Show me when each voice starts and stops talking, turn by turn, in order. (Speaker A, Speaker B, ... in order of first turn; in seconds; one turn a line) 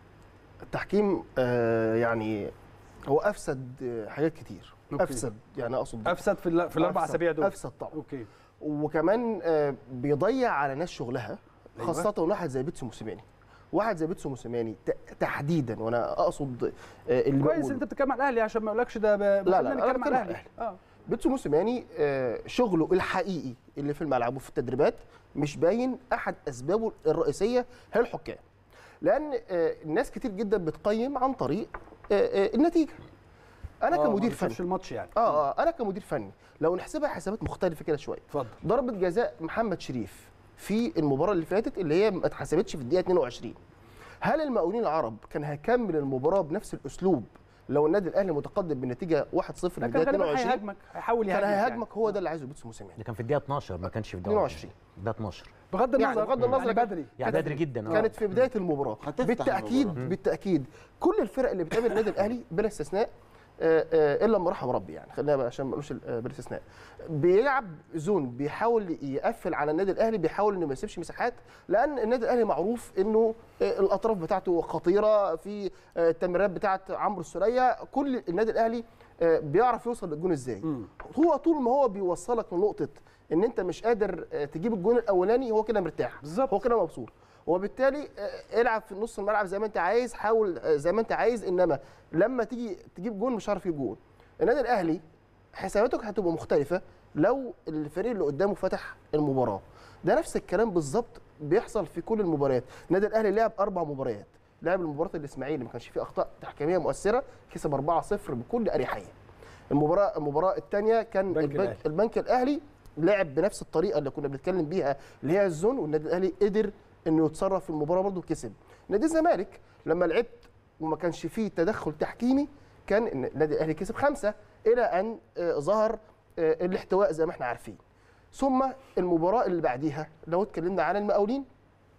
Speaker A: 0.7-2.5
Speaker A: 3.1-6.2
Speaker B: 4.9-5.2
Speaker B: 6.0-8.3
Speaker A: 6.8-8.0
Speaker A: 8.6-17.8
Speaker B: 11.8-12.1
Speaker B: 17.4-20.8
Speaker A: 19.4-20.5
Speaker A: 21.1-28.4
Speaker A: 29.0-33.0
Speaker A: 33.8-34.6
Speaker B: 33.9-35.4
Speaker A: 35.1-43.6
Speaker B: 38.3-38.6
Speaker A: 44.2-50.6
Speaker B: 49.8-52.1
Speaker A: 51.3-53.0
Speaker C: 53.0-55.5
Speaker A: 54.2-54.7
Speaker B: 55.7-57.6
Speaker A: 56.0-95.0
Speaker C: 57.2-58.2
Speaker C: 59.0-60.1
Speaker B: 86.2-86.5
Speaker A: 95.5-109.1
Speaker A: 109.7-127.8
Speaker B: 111.3-111.8
Speaker A: 128.3-131.5